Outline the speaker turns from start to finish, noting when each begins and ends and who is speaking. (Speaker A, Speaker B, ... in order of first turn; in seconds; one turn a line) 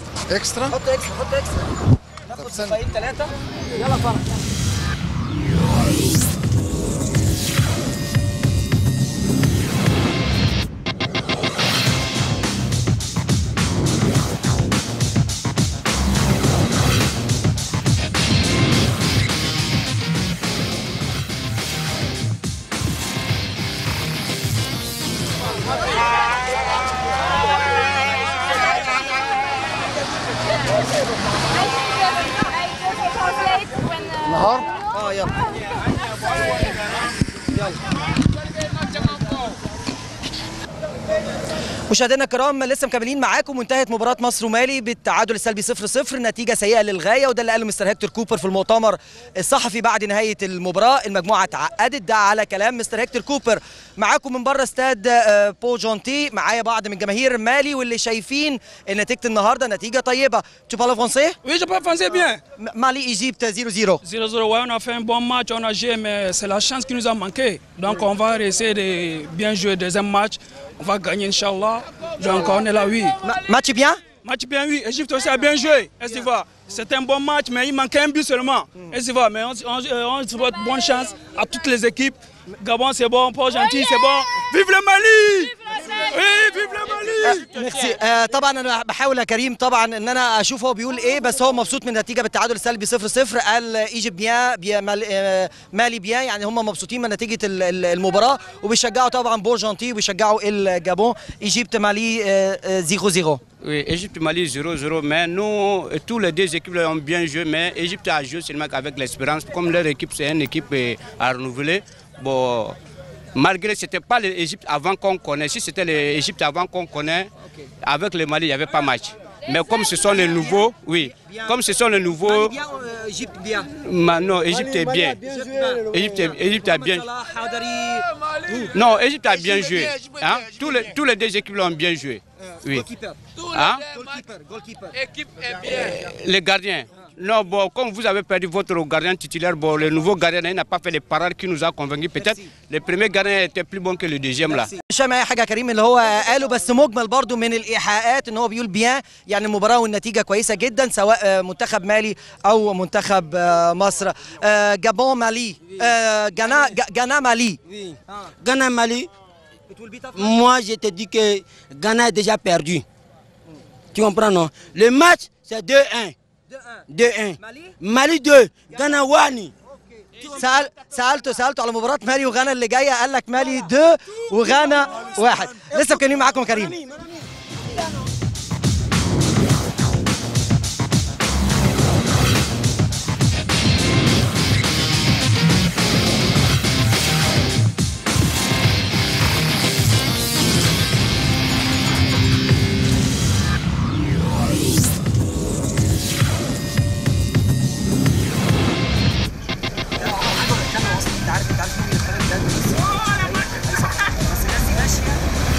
Speaker A: 0.3-0.7
Speaker B: 0.6-1.7
Speaker B: 2.3-4.1
Speaker A: 34.3-34.6
Speaker B: 35.0-35.3
Speaker B: 41.9-61.4
Speaker A: 61.4-62.4
Speaker B: 62.6-64.0
Speaker A: 64.0-73.2
Speaker B: 73.2-74.0
Speaker A: 74.2-87.6
Speaker B: 87.2-103.4
Speaker C: 103.6-112.8
Speaker C: 113.3-117.3
Speaker C: 117.8-122.5
Speaker B: 122.3-123.7
Speaker C: 123.7-125.2
Speaker B: 125.2-125.8
Speaker C: 125.8-127.0
Speaker B: 126.6-128.7
Speaker C: 128.7-132.9
Speaker B: 132.8-133.2
Speaker C: 133.5-134.0
Speaker B: 133.9-134.9
Speaker C: 135.3-144.7
Speaker B: 144.8-157.6
Speaker D: 155.7-156.8
Speaker D: 157.7-159.1
Speaker B: 159.7-160.2
Speaker D: 160.2-162.8
Speaker D: 163.9-166.1
Speaker D: 166.9-169.5
Speaker B: 167.4-167.7
Speaker B: 170.2-176.8
Speaker D: 175.7-177.2
Speaker B: 200.0-205.1